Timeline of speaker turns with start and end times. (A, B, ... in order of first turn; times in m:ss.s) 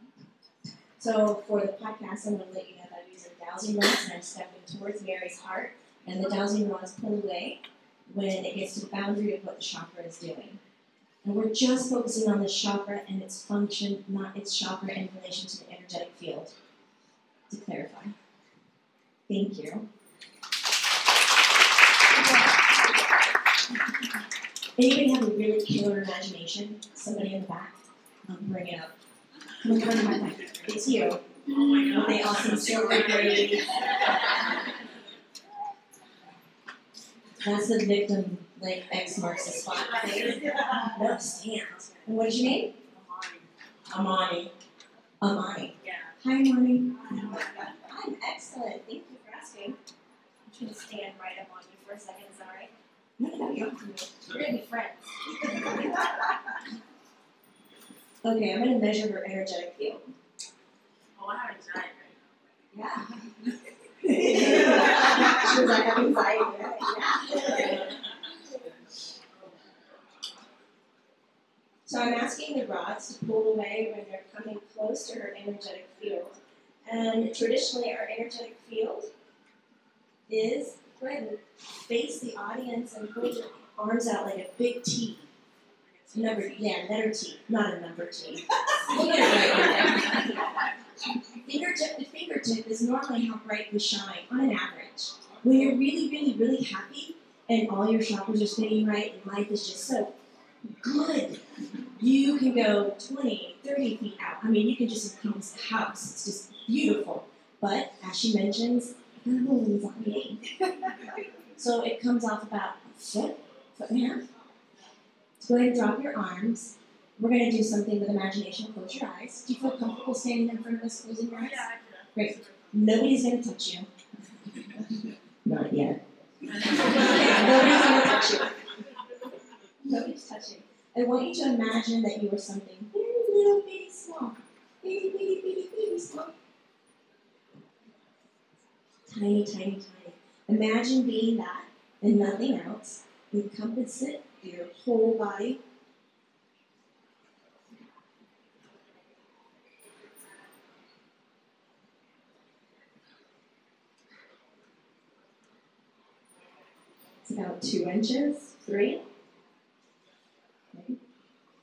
0:01.0-0:10.6 A
0:11.2-0:16.5 A
0:17.5-0:18.1 A
0:19.3-0:19.9 A
0:24.8-0:28.9 A
0:29.6-0:31.2 A
0:31.5-0:34.0 B
0:31.8-0:34.1 A
0:37.4-0:42.7 A
0:39.9-0:41.0 B
0:42.9-0:43.4 B
0:43.9-0:44.5 A
0:45.2-0:49.8 A
0:45.8-0:46.1 B
0:47.1-0:47.5 B
0:50.5-0:56.0 A
0:58.2-1:00.1 A
1:01.1-1:02.2 B
1:02.7-1:03.1 A
1:04.0-1:07.9 A
1:11.8-1:16.3 A
1:16.8-1:19.1 A
1:20.3-1:25.3 A
1:25.9-1:26.6 B
1:26.1-1:30.3 A
1:31.4-1:40.1 A
1:40.8-1:41.4 A
1:41.9-1:50.4 A
1:51.6-1:54.2 A
1:55.4-2:03.9 A
2:01.4-2:02.7 B
2:05.4-2:08.5 A
2:09.8-2:16.4 A
2:19.1-2:25.6 A
2:37.2-2:39.0 A
2:40.7-2:41.0 A